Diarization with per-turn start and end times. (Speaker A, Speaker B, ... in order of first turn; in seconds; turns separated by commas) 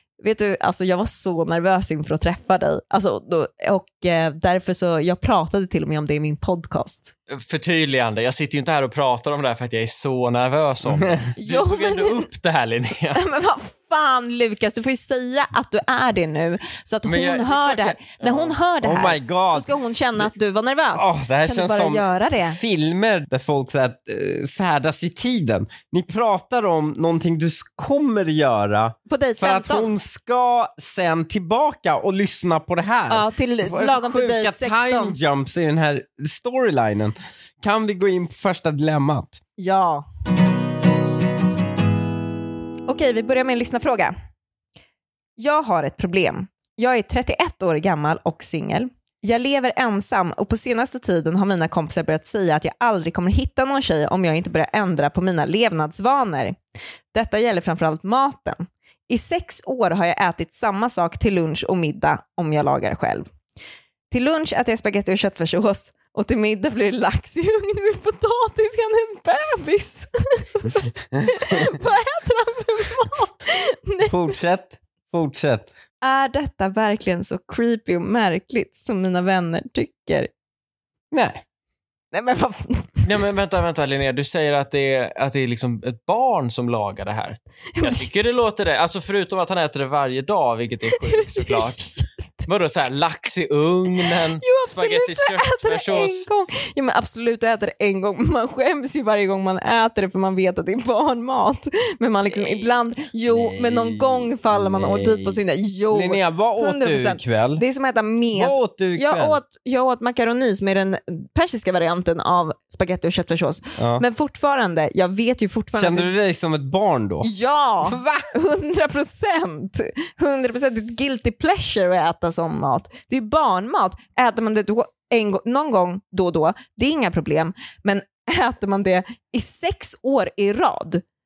Speaker A: 0.2-7.1, Speaker B: 7.3-13.2, Speaker A: 11.3-12.3, Speaker A: 13.1-22.6, Speaker B: 17.0-18.6, Speaker C: 18.8-20.3, Speaker C: 20.9-39.4, Speaker A: 29.1-29.9, Speaker A: 33.1-35.2, Speaker A: 39.6-40.0, Speaker A: 42.9-44.1, Speaker A: 45.4-56.6, Speaker A: 57.1-63.3, Speaker A: 64.1-74.2, Speaker C: 74.1-75.7, Speaker A: 76.0-80.3, Speaker C: 81.1-81.4, Speaker A: 82.1-83.1, Speaker B: 83.0-91.9, Speaker A: 87.8-88.1, Speaker A: 91.0-92.5, Speaker B: 92.5-96.3, Speaker A: 94.0-116.1, Speaker B: 102.3-102.7, Speaker C: 103.3-105.4, Speaker C: 105.9-107.6, Speaker C: 108.3-109.4, Speaker C: 113.8-114.0, Speaker C: 115.8-117.3, Speaker A: 117.2-131.0, Speaker C: 117.8-118.3